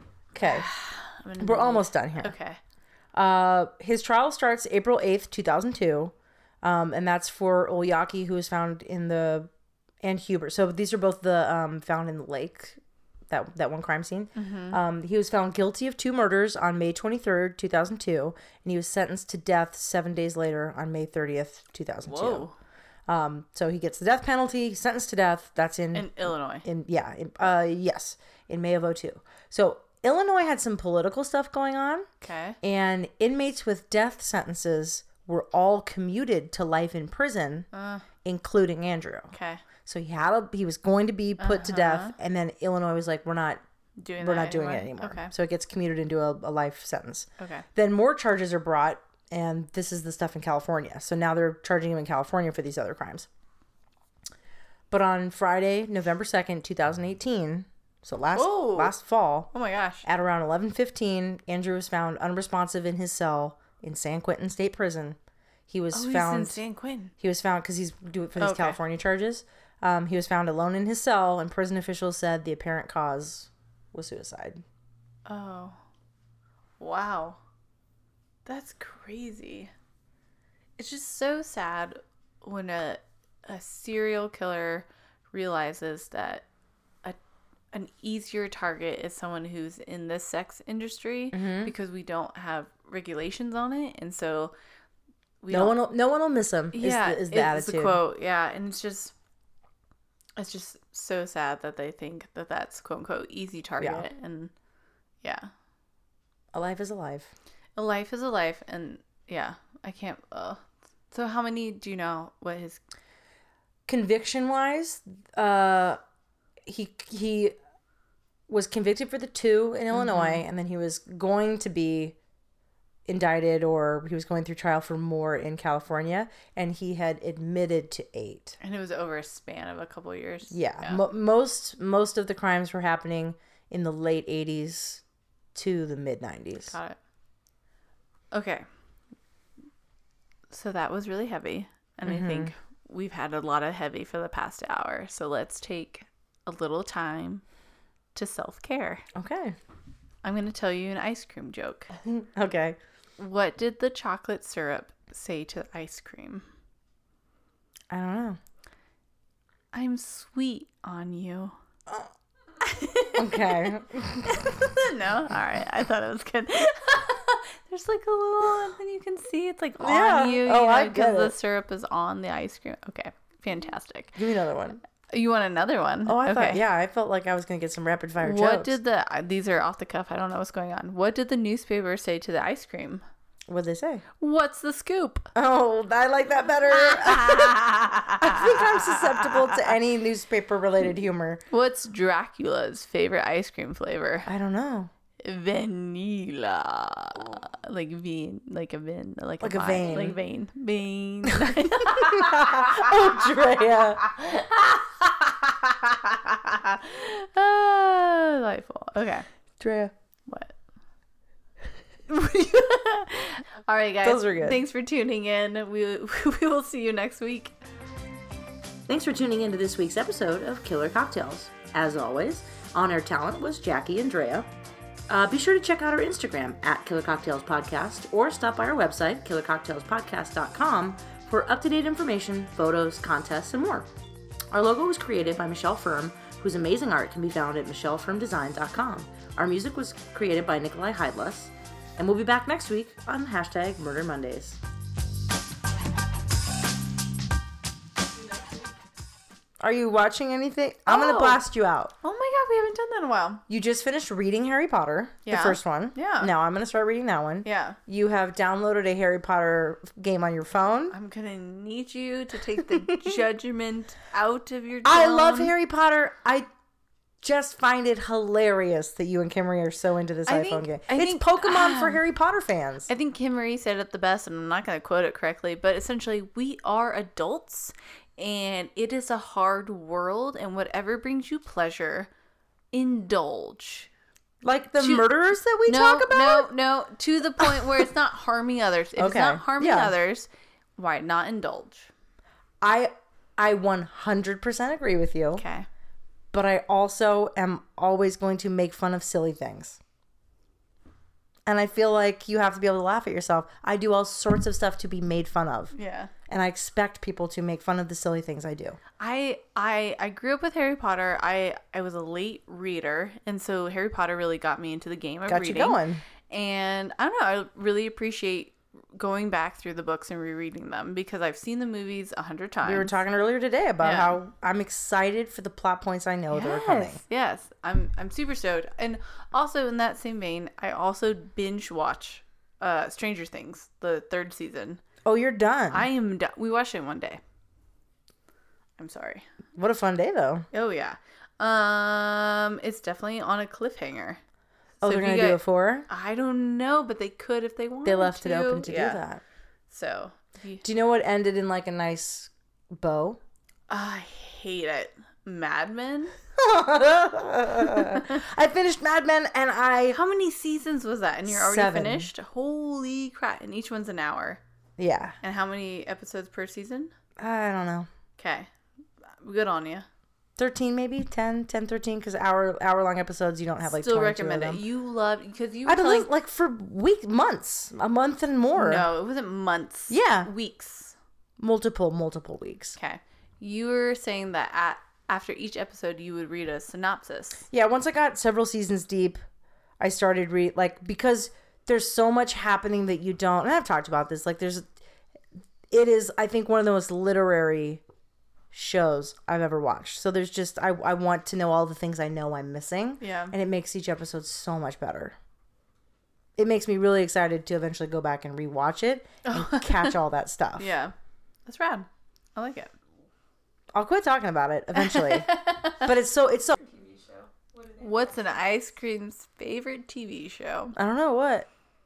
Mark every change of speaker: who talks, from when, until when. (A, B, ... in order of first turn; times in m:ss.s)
0:00.3-0:00.7 A
0:00.4-0:02.6 B
0:01.4-0:02.4 A
0:03.1-0:09.5 A
0:10.0-0:22.5 A
0:14.4-0:14.8 B
0:22.0-0:22.6 B
0:23.1-0:32.1 A
0:25.9-0:26.7 B
0:32.2-0:32.6 B
0:32.6-0:37.7 A
0:37.7-0:38.0 B
0:38.2-0:39.3 A
0:39.3-0:39.6 B
0:39.9-0:43.6 A
0:41.4-0:42.2 B
0:44.0-0:45.3 B
0:44.2-0:53.3 A
0:47.4-0:47.7 B
0:54.9-0:59.5 A
0:58.4-0:59.0 B
0:59.5-1:00.0 B
1:00.0-1:05.2 A
1:05.7-1:06.6 A
1:05.9-1:07.1 B
1:07.2-1:14.6 A
1:08.4-1:08.8 B
1:15.3-1:15.8 B
1:16.8-1:17.4 B
1:18.4-1:19.7 B
1:20.8-1:26.4 B
1:27.7-1:34.5 B
1:31.3-1:31.7 A
1:35.4-1:35.8 B
1:35.5-1:38.0 A
1:36.7-1:39.1 B
1:40.4-1:44.5 B
1:43.8-1:44.1 A
1:45.2-1:45.5 B
1:46.5-1:47.3 A
1:47.8-1:52.8 B
1:53.9-1:56.0 A
1:56.7-1:57.6 A
1:58.5-2:02.2 A
1:59.9-2:00.4 B
2:03.1-2:08.6 A
2:08.6-2:11.0 B
2:10.5-2:15.0 A
2:15.6-2:16.8 A
2:16.6-2:17.0 B
2:18.3-2:18.7 B
2:20.5-2:27.4 B
2:22.1-2:22.5 A
2:28.2-2:29.1 B
2:29.2-2:29.6 A
2:30.2-2:31.9 B
2:32.0-2:32.8 A
2:33.2-2:36.4 B
2:37.9-2:38.4 A
2:39.7-2:41.6 B
2:42.6-2:54.2 B
2:43.2-2:44.6 A
2:49.8-2:51.4 A
2:54.2-2:54.8 A
2:55.1-2:56.6 B
2:56.1-2:58.8 A
2:58.2-3:03.0 B
3:03.5-3:04.0 A
3:04.2-3:05.3 B
3:05.4-3:11.4 A
3:06.7-3:09.6 B
3:11.5-3:14.3 B
3:14.3-3:14.9 A
3:15.2-3:23.2 B
3:19.4-3:20.2 A
3:21.5-3:24.2 A
3:24.2-3:24.8 B
3:25.4-3:25.7 A
3:26.2-3:29.3 B
3:29.6-3:29.9 A
3:30.3-3:30.6 B
3:32.1-3:37.6 B
3:34.0-3:34.6 A
3:38.9-3:44.5 A
3:45.1-3:53.9 A
3:54.5-4:04.6 A
4:09.6-4:11.9 A
4:10.9-4:11.4 B
4:12.0-4:13.4 B
4:13.5-4:21.0 A
4:15.3-4:16.3 B
4:17.4-4:17.8 B
4:20.9-4:25.5 B
4:22.7-4:23.2 A
4:24.8-4:26.5 A
4:27.2-4:32.9 A
4:30.3-4:32.0 B
4:32.9-4:42.1 B
4:42.7-4:43.9 B
4:44.4-4:46.5 A
4:44.8-4:45.1 B
4:45.7-4:51.9 B
4:47.4-4:47.7 A
4:49.0-4:50.0 A
4:52.6-4:55.4 A
4:55.4-4:55.7 B
4:56.3-4:59.8 A
5:01.5-5:05.7 A
5:05.7-5:06.1 B
5:06.3-5:08.8 A
5:09.0-5:22.9 B
5:15.3-5:16.0 A
5:22.6-5:27.0 A
5:23.8-5:24.2 B
5:26.3-5:34.8 B
5:35.0-5:35.9 A
5:35.7-5:37.2 B
5:38.8-5:39.3 B
5:39.6-5:40.5 A
5:40.5-5:44.2 B
5:44.8-5:45.9 A
5:44.8-5:49.0 B
5:47.8-5:49.2 A
5:49.7-5:50.6 B
5:50.6-5:53.2 A
5:53.7-5:56.2 B
5:56.4-6:00.0 A
5:57.7-5:58.2 B
5:59.9-6:04.4 B
6:01.3-6:02.1 A
6:04.8-6:05.2 A
6:05.2-6:06.9 B
6:07.2-6:07.9 A
6:08.2-6:08.5 B
6:09.2-6:09.9 B
6:10.4-6:14.6 A
6:13.7-6:16.1 B
6:15.7-6:18.9 A
6:18.6-6:21.0 B
6:19.9-6:20.3 A
6:21.4-6:22.8 A
6:22.8-6:27.4 B
6:27.5-6:29.2 A
6:29.8-6:34.7 A
6:35.7-6:37.8 A
6:38.5-6:45.2 A
6:43.0-6:43.4 B
6:46.4-6:50.8 A
6:49.2-6:50.0 B
6:50.6-6:50.9 B
6:51.5-6:52.7 B
6:53.7-6:56.5 A
6:54.8-6:55.9 B
6:56.5-6:58.7 C
6:57.8-7:00.8 B
7:00.8-7:01.5 A